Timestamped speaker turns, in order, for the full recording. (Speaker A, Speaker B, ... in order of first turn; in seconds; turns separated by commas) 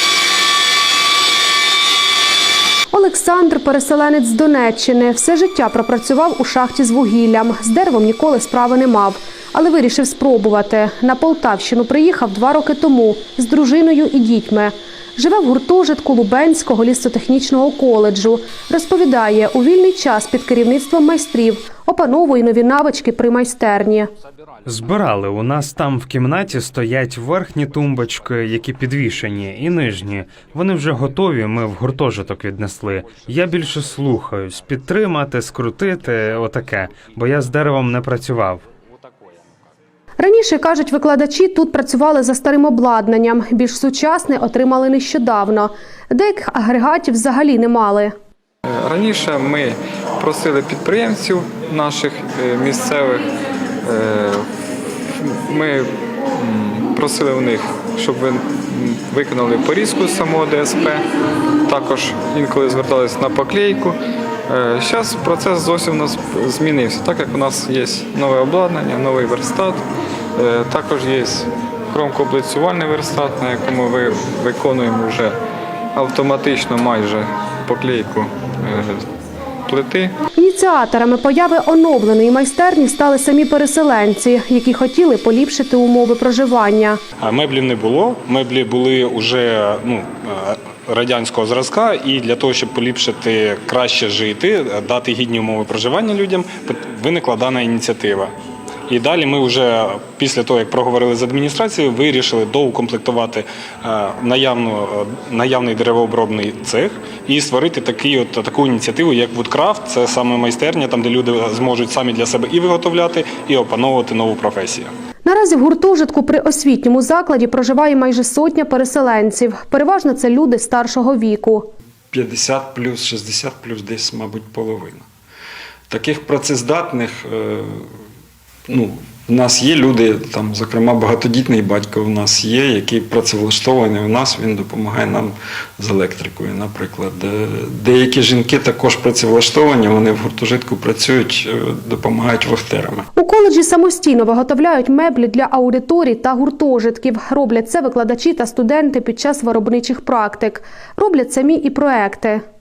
Speaker A: 2.9-24.1, Speaker B: 24.6-38.6, Speaker A: 40.2-48.1, Speaker C: 48.6-53.3, Speaker C: 53.8-54.5, Speaker C: 55.1-61.0, Speaker C: 61.6-75.4, Speaker C: 75.9-79.1, Speaker C: 79.7-80.2, Speaker A: 80.3-87.0, Speaker D: 87.2-98.3, Speaker D: 98.9-114.9, Speaker A: 115.2-121.7, Speaker E: 122.1-125.1, Speaker E: 125.9-127.9, Speaker E: 128.7-143.1, Speaker A: 143.1-152.4